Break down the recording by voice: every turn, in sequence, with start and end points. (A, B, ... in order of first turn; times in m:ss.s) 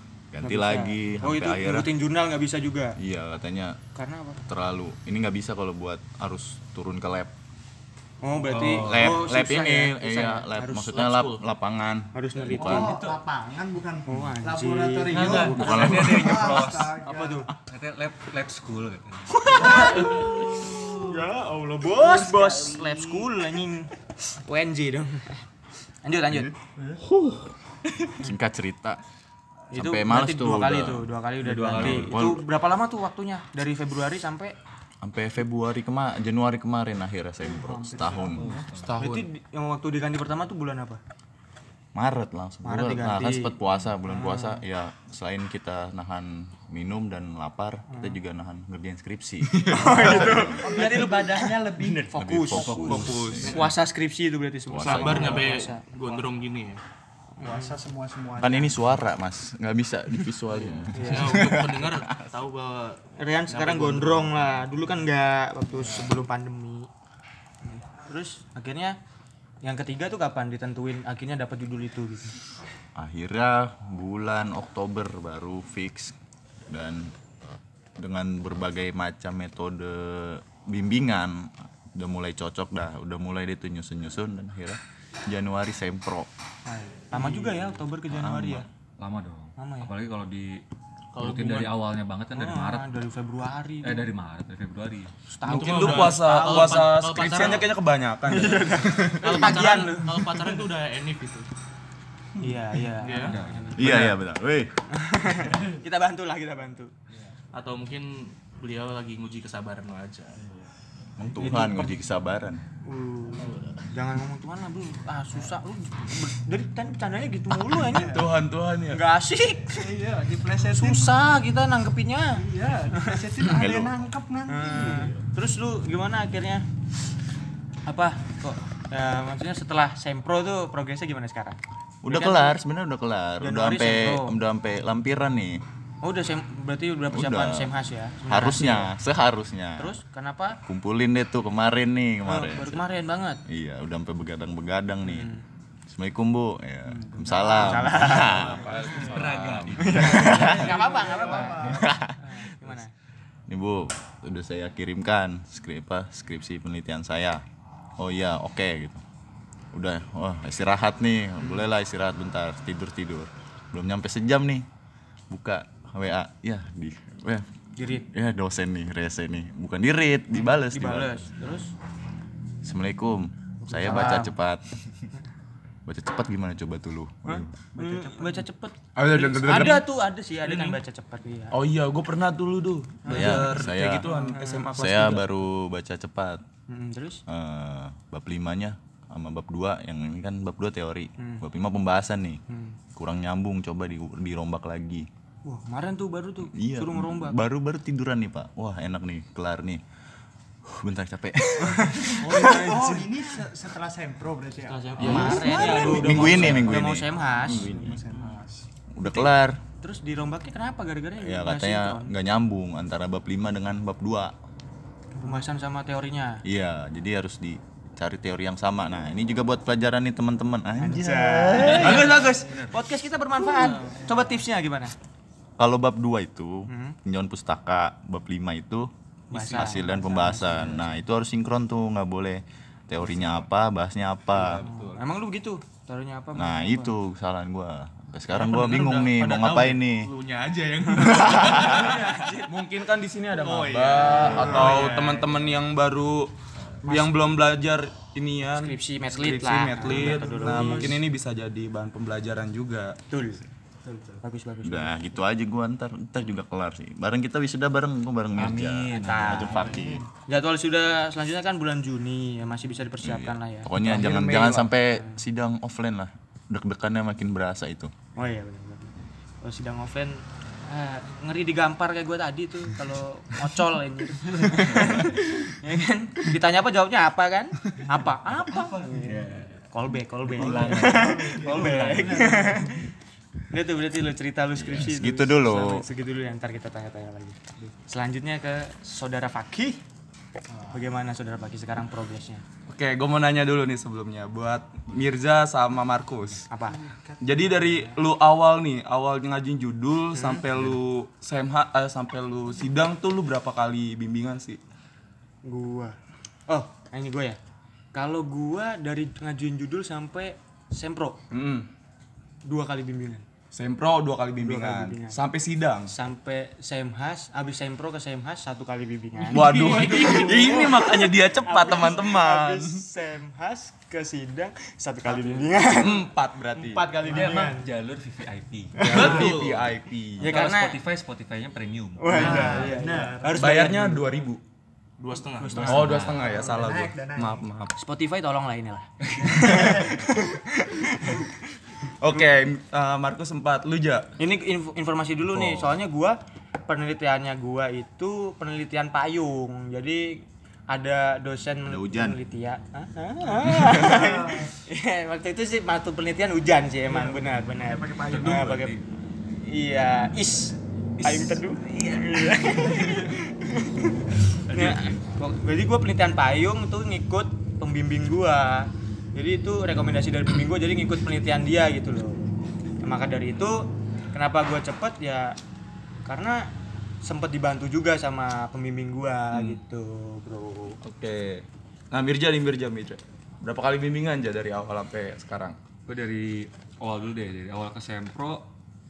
0:00.3-0:01.9 A
0:00.4-0:03.0 B
0:03.0-0:03.8 A
0:04.0-0:04.4 B
0:04.5-0:07.3 A
0:08.2-0:11.0 B
0:08.5-0:09.3 C
0:08.8-0:13.0 A
0:10.9-0:11.4 D
0:12.1-0:13.0 B
0:12.5-0:17.5 E
0:12.7-0:13.2 C
0:14.1-0:15.6 B
0:15.1-0:17.0 C
0:15.4-0:16.8 A
0:17.0-0:17.5 B
0:17.6-0:19.8 C
0:19.4-0:20.4 B
0:19.5-0:20.5 E
0:21.0-0:23.9 B
0:22.0-0:22.8 E
0:24.4-0:25.4 B
0:26.0-0:26.5 B
0:26.8-0:27.0 E
0:28.1-0:29.0 A
0:29.7-0:31.1 A
0:29.7-0:34.5 B
0:31.4-0:32.3 C
0:31.8-0:32.4 A
0:35.0-0:39.3 A
0:37.4-0:38.7 E
0:38.4-0:39.0 C
0:39.0-0:41.0 B
0:42.0-0:50.7 A
0:42.6-0:43.6 B
0:44.1-0:44.6 B
0:47.9-0:48.2 B
0:49.5-0:49.9 F
0:49.7-0:51.1 B
0:49.9-0:52.1 E
0:51.9-0:53.6 C
0:52.0-0:56.2 B
0:52.2-0:53.6 A
0:52.9-0:53.6 F
0:54.7-0:55.4 A
0:54.8-0:56.8 D
0:57.4-0:57.8 B
0:57.4-0:58.9 E
0:58.4-1:02.0 A
1:00.6-1:04.5 D
1:01.0-1:01.5 B
1:03.2-1:06.9 B
1:05.7-1:06.1 E
1:07.7-1:09.0 B
1:09.6-1:12.4 B
1:13.0-1:16.2 A
1:16.7-1:17.1 A
1:18.0-1:26.3 A
1:26.7-1:28.7 B
1:27.2-1:28.7 A
1:29.0-1:30.6 C
1:29.6-1:29.9 B
1:31.1-1:31.7 D
1:31.2-1:32.9 C
1:32.4-1:34.1 B
1:33.8-1:35.1 C
1:35.3-1:36.2 B
1:35.4-1:39.4 F
1:35.5-1:37.7 D
1:38.3-1:40.5 B
1:39.2-1:41.5 D
1:42.4-1:44.2 B
1:43.0-1:43.4 D
1:43.3-1:44.0 C
1:43.8-1:44.7 A
1:44.9-1:46.9 B
1:45.5-1:45.8 E
1:47.5-1:50.4 D
1:50.4-1:50.7 E
1:51.2-1:52.6 A
1:51.4-1:51.9 B
1:52.8-1:58.2 B
1:53.4-1:53.8 D
1:57.8-1:58.3 E
1:58.1-1:59.0 F
1:58.9-1:59.9 B
1:59.7-2:01.2 E
2:00.6-2:02.4 B
2:02.4-2:05.2 E
2:03.5-2:03.9 A
2:04.5-2:06.6 B
2:07.9-2:12.6 B
2:12.0-2:15.6 A
2:13.4-2:14.3 B
2:16.0-2:18.9 B
2:17.1-2:17.7 A
2:18.2-2:20.0 A
2:19.8-2:20.6 B
2:20.6-2:22.8 A
2:22.3-2:23.4 B
2:23.5-2:25.4 A
2:25.1-2:25.4 B
2:25.9-2:30.6 A
2:26.9-2:29.1 B
2:27.2-2:28.7 E
2:28.5-2:29.2 F
2:29.0-2:30.6 C
2:29.8-2:32.9 B
2:30.0-2:32.0 E
2:31.6-2:32.4 A
2:33.5-2:37.4 A
2:38.0-2:39.0 A
2:39.7-2:44.7 A
2:45.3-2:47.5 A
2:47.8-2:48.1 B
2:48.1-2:51.3 A
2:50.4-2:51.7 B
2:52.6-2:54.6 A
2:53.6-2:54.4 B
2:55.9-2:57.5 A
2:57.2-3:01.6 B
2:57.8-2:58.4 E
2:59.0-2:59.8 F
2:59.4-2:59.8 D
3:00.4-3:00.8 D
3:01.5-3:05.2 F
3:03.0-3:04.8 B
3:03.1-3:04.1 A
3:04.8-3:06.4 A
3:06.7-3:07.2 B
3:07.3-3:12.4 A
3:11.2-3:11.5 B
3:12.5-3:12.8 B
3:13.0-3:15.1 A
3:15.4-3:17.4 B
3:16.5-3:19.8 A
3:20.7-3:22.2 A
3:21.6-3:23.4 B
3:22.2-3:28.7 E
3:24.6-3:27.7 B
3:25.0-3:26.8 F
3:25.1-3:28.0 A
3:28.9-3:29.6 A
3:29.0-3:29.3 B
3:29.8-3:32.1 B
3:31.2-3:34.4 A
3:35.2-3:36.4 B
3:35.2-3:35.5 E
3:36.4-3:42.2 A
3:40.8-3:44.9 B
3:41.8-3:42.7 C
3:41.8-3:42.1 D
3:41.8-3:42.6 E
3:42.1-3:42.4 F
3:43.6-3:43.9 D
3:43.6-3:44.3 E
3:45.6-3:54.6 A
3:46.7-3:47.0 B
3:49.3-3:51.0 B
3:54.3-3:55.1 F
3:54.6-3:57.0 B
3:56.4-4:00.1 A
3:58.3-4:02.4 D
4:01.0-4:02.6 B
4:01.7-4:06.3 F
4:03.3-4:05.2 D
4:03.4-4:05.3 B
4:06.8-4:13.0 F
4:08.6-4:11.0 B
4:09.8-4:11.0 E
4:13.1-4:13.4 B
4:13.8-4:14.2 E
4:14.2-4:15.1 B
4:14.6-4:20.0 A
4:18.4-4:19.8 C
4:19.0-4:25.2 B
4:19.5-4:20.1 E
4:23.0-4:27.9 A
4:28.2-4:39.1 B
4:34.3-4:35.2 C
4:37.9-4:39.5 E
4:39.0-4:39.6 C
4:39.7-4:42.8 B
4:40.3-4:42.4 C
4:40.4-4:42.9 E
4:43.5-4:49.8 B
4:44.6-4:45.9 A
4:50.5-4:50.9 E
4:50.7-4:52.4 B
4:52.7-4:56.5 F
4:56.5-4:56.8 B
4:56.6-4:58.0 E
4:57.2-5:04.6 F
5:00.1-5:00.4 B
5:05.4-5:06.0 B
5:06.5-5:07.4 B
5:07.9-5:11.2 B
5:11.3-5:11.7 F
5:12.5-5:13.2 B
5:13.5-5:15.9 F
5:14.4-5:15.2 B
5:15.9-5:27.7 B
5:19.3-5:21.0 D
5:19.3-5:22.8 F
5:25.7-5:27.0 F
5:27.1-5:29.0 C
5:27.1-5:27.4 E
5:28.8-5:29.3 B
5:28.8-5:30.4 F
5:28.8-5:29.7 D
5:30.2-5:30.8 B
5:30.2-5:32.8 C
5:32.0-5:34.1 B
5:32.1-5:33.7 E
5:32.3-5:32.6 F
5:33.4-5:34.4 F
5:35.0-5:35.8 D
5:35.4-5:36.1 B
5:35.6-5:36.2 C
5:35.6-5:37.7 F
5:36.0-5:37.4 E
5:37.8-5:41.4 B
5:39.2-5:40.0 E
5:39.2-5:39.7 F
5:42.0-5:44.1 F
5:44.2-5:46.2 B
5:45.3-5:45.7 F
5:46.7-5:58.8 B
5:51.7-5:52.2 A
5:53.6-5:54.5 E
5:56.9-5:58.7 E
5:58.1-5:58.8 C
5:59.4-6:12.3 B
6:01.0-6:02.3 C
6:02.5-6:03.1 E
6:12.8-6:15.4 B
6:16.0-6:16.5 B
6:17.0-6:20.8 B
6:19.3-6:19.6 F
6:20.8-6:25.6 F
6:25.9-6:28.5 C